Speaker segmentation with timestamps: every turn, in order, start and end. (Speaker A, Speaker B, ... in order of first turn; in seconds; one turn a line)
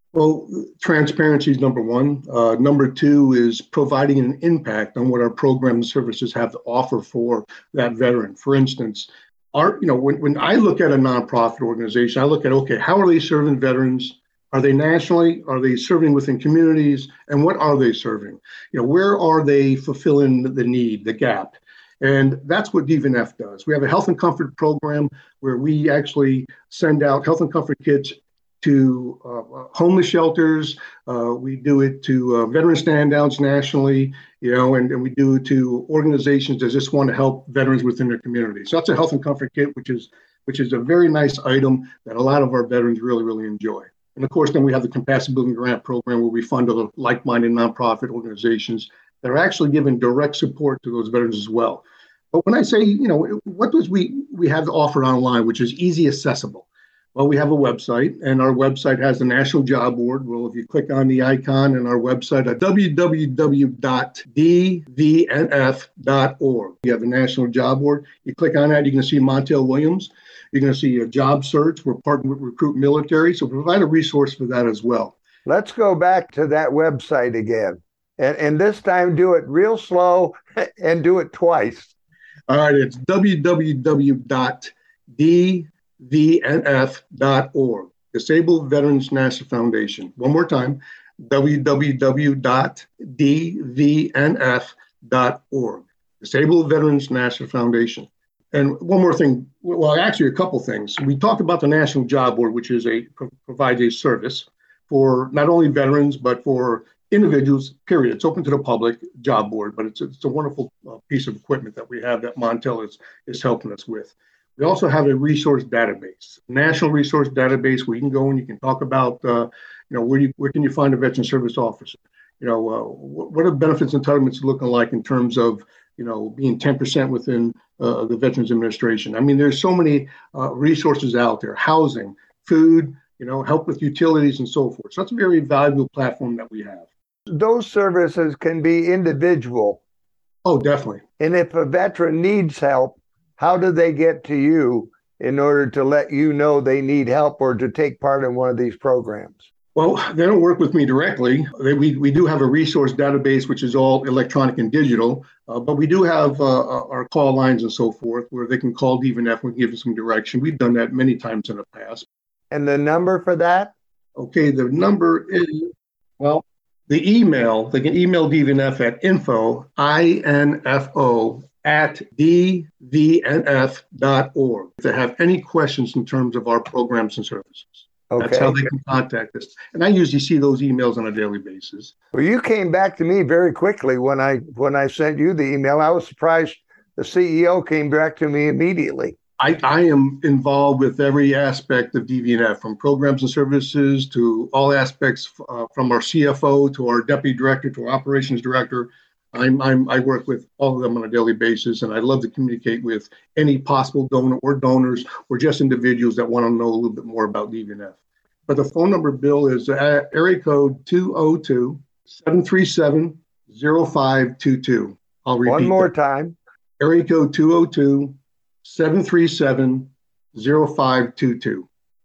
Speaker A: 0.1-75.2
Speaker B: 75.4-81.9
Speaker A: 82.5-136.9
Speaker B: 137.3-139.8
Speaker A: 140.4-141.0
Speaker B: 141.2-149.4
Speaker A: 149.7-162.1
Speaker B: 162.5-163.7
Speaker A: 164.2-181.9
Speaker B: 178.1-178.5
Speaker B: 182.1-189.2
Speaker A: 189.4-207.9
Speaker A: 208.5-215.9
Speaker B: 215.4-216.3
Speaker A: 216.8-221.7